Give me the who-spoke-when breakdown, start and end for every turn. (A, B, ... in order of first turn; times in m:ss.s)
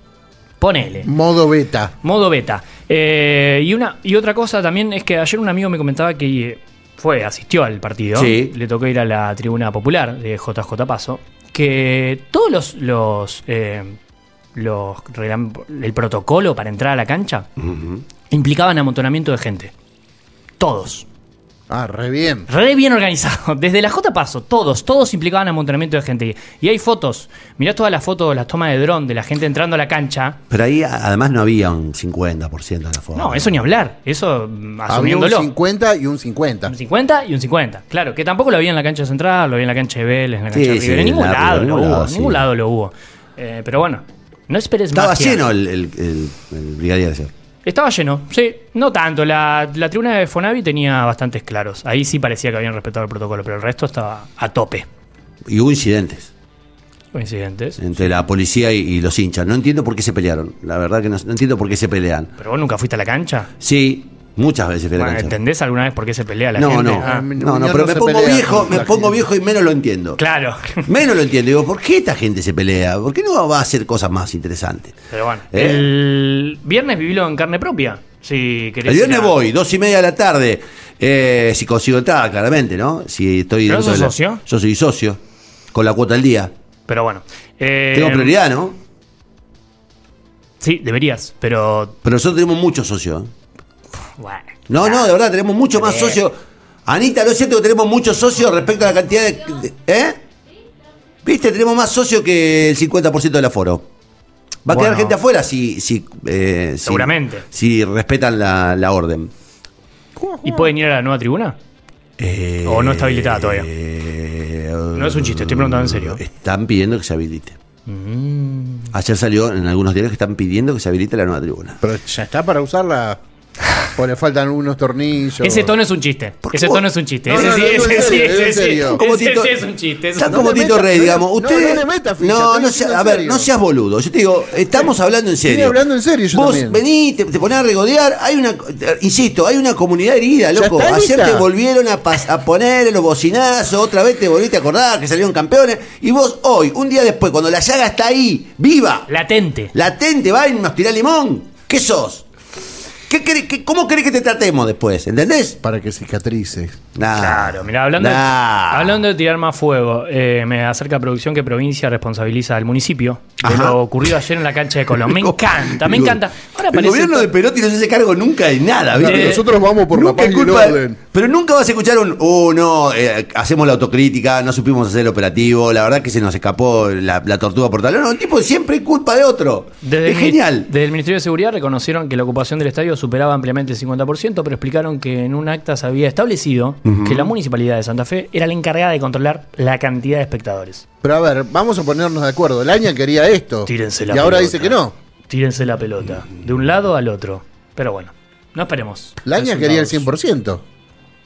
0:00.6-0:01.1 A
0:01.0-0:01.9 B
0:02.0-0:14.0 A
0:08.2-0:08.5 C
0:14.5-0:17.5 A
0:17.6-0:18.0 C
0:18.3-0:19.7 A
0:20.6-0:21.0 A
0:21.7-0:22.5 B
0:22.5-0:30.4 A
0:30.5-0:33.5 C
0:33.1-0:35.5 A
0:34.9-0:36.7 B
0:36.7-0:45.5 A
0:40.5-0:42.4 C
0:44.9-0:47.3 C
0:47.6-0:54.9 A
0:55.5-0:56.3 C
0:57.1-0:58.0 A
0:57.8-1:02.3 C
1:02.4-1:03.5 A
1:03.6-1:05.4 C
1:05.0-1:07.3 A
1:06.6-1:10.2 C
1:06.9-1:09.2 B
1:10.2-1:10.9 A
1:10.9-1:15.0 C
1:15.1-1:19.4 A
1:15.5-1:15.9 C
1:18.8-1:25.2 C
1:23.7-1:24.4 A
1:25.7-1:26.5 C
1:26.9-1:28.4 A
1:27.9-1:28.8 C
1:30.6-1:32.0 A
1:32.0-1:33.3 C
1:34.2-1:35.1 A
1:34.7-1:36.3 C
1:35.8-1:36.2 A
1:36.9-1:40.2 C
1:41.2-1:43.9 C
1:44.6-1:49.3 C
1:44.7-1:45.2 A
1:46.8-1:47.4 A
1:50.2-1:50.7 B
1:50.4-1:51.6 A
1:52.2-1:57.6 C
1:52.6-1:53.7 A
1:55.0-1:56.2 A
1:57.9-1:58.9 A
1:58.9-2:01.8 C
2:01.8-2:03.2 B
2:04.0-2:05.7 B
2:05.4-2:10.5 A
2:06.4-2:09.6 C
2:07.3-2:09.0 B
2:10.2-2:15.8 C
2:10.3-2:13.5 B
2:15.4-2:16.8 B
2:16.3-2:29.1 C
2:20.5-2:21.5 B
2:29.1-2:29.7 A
2:29.7-2:32.2 C
2:33.1-2:35.6 C
2:35.6-2:36.8 B
2:37.0-2:39.0 C
2:37.2-2:47.3 A
2:43.4-2:43.8 C
2:45.0-3:00.7 C
2:49.0-2:51.0 B
2:49.0-2:49.4 A
2:59.8-3:10.8 A
3:06.8-3:07.3 C
3:11.0-3:14.9 B
3:13.6-3:14.8 A
3:15.3-3:20.1 A
3:19.2-3:20.6 B